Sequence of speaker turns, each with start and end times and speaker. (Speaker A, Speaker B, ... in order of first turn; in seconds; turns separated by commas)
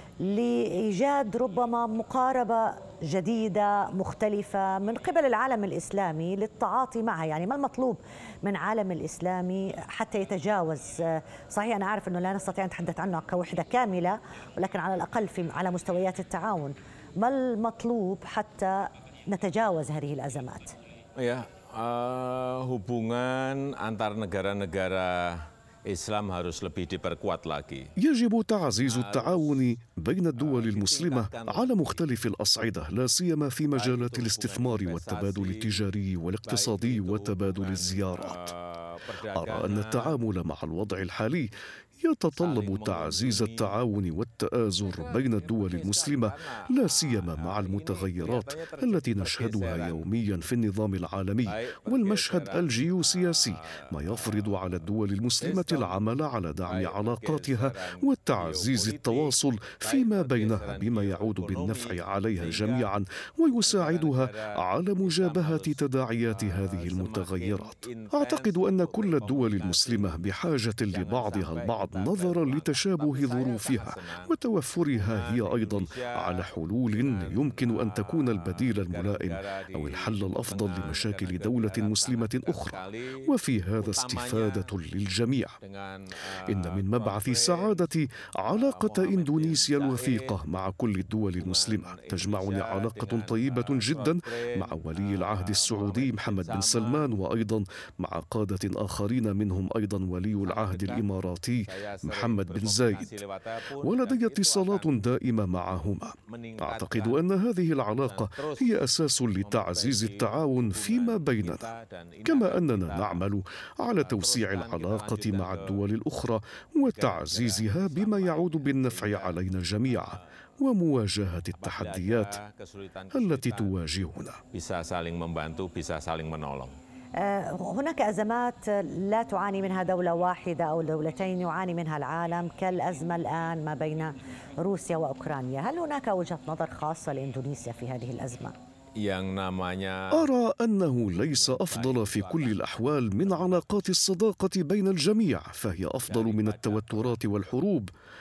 Speaker A: 0.2-20.8, Speaker B: 21.2-27.9, Speaker C: 28.0-38.5, Speaker B: 28.9-29.7, Speaker B: 30.4-32.0, Speaker B: 33.7-35.8, Speaker B: 36.5-40.2, Speaker C: 39.3-85.6, Speaker B: 42.4-43.8, Speaker B: 44.8-50.0, Speaker B: 51.5-54.6, Speaker B: 55.4-56.0, Speaker B: 56.7-62.9, Speaker B: 63.6-70.2, Speaker B: 70.9-74.3, Speaker B: 74.9-84.7, Speaker B: 85.6-87.8, Speaker C: 86.5-103.2, Speaker B: 88.5-90.4, Speaker B: 91.4-97.1, Speaker B: 100.4-101.0, Speaker B: 101.7-105.0, Speaker C: 103.8-111.7, Speaker B: 106.3-107.2, Speaker B: 108.0-108.8, Speaker B: 109.4-113.2, Speaker C: 112.2-122.4, Speaker B: 114.0-115.8, Speaker B: 116.9-120.2, Speaker B: 121.6-123.7, Speaker C: 123.1-124.4, Speaker B: 124.5-126.7, Speaker A: 127.2-138.6, Speaker B: 139.0-140.3, Speaker C: 140.1-147.9, Speaker B: 141.1-143.6, Speaker B: 146.1-147.2